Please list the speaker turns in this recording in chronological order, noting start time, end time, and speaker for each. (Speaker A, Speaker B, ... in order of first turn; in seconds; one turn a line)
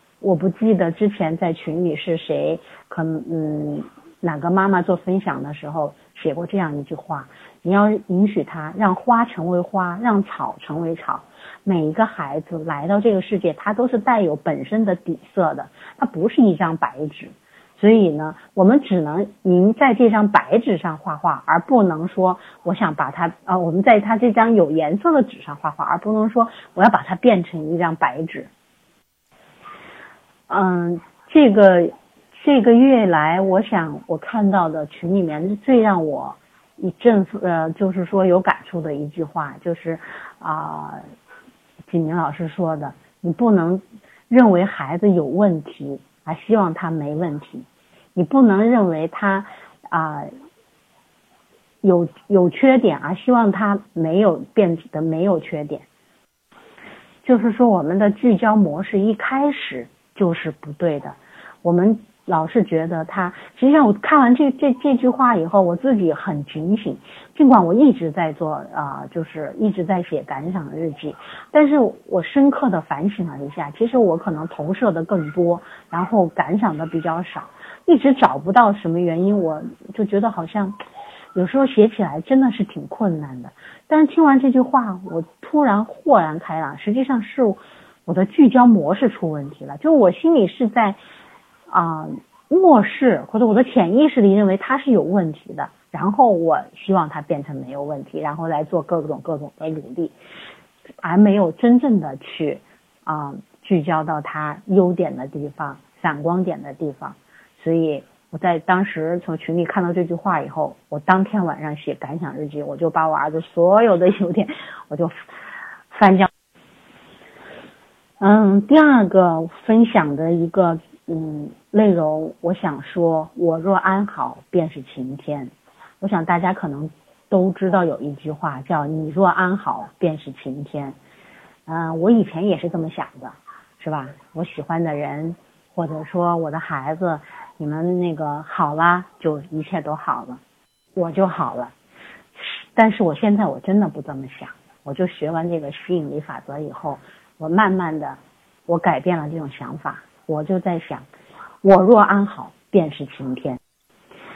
Speaker A: 0.2-28.5
Speaker A: 30.5-41.0
Speaker A: 41.9-50.3
Speaker A: 51.8-55.9
Speaker A: 57.2-80.8
Speaker A: 81.3-91.0
Speaker A: 91.7-100.1
Speaker A: 101.0-115.1
Speaker A: 115.9-116.3
Speaker A: 118.2-131.0
Speaker A: 131.7-140.4
Speaker A: 140.9-141.7
Speaker A: 142.3-151.0
Speaker A: 151.6-153.6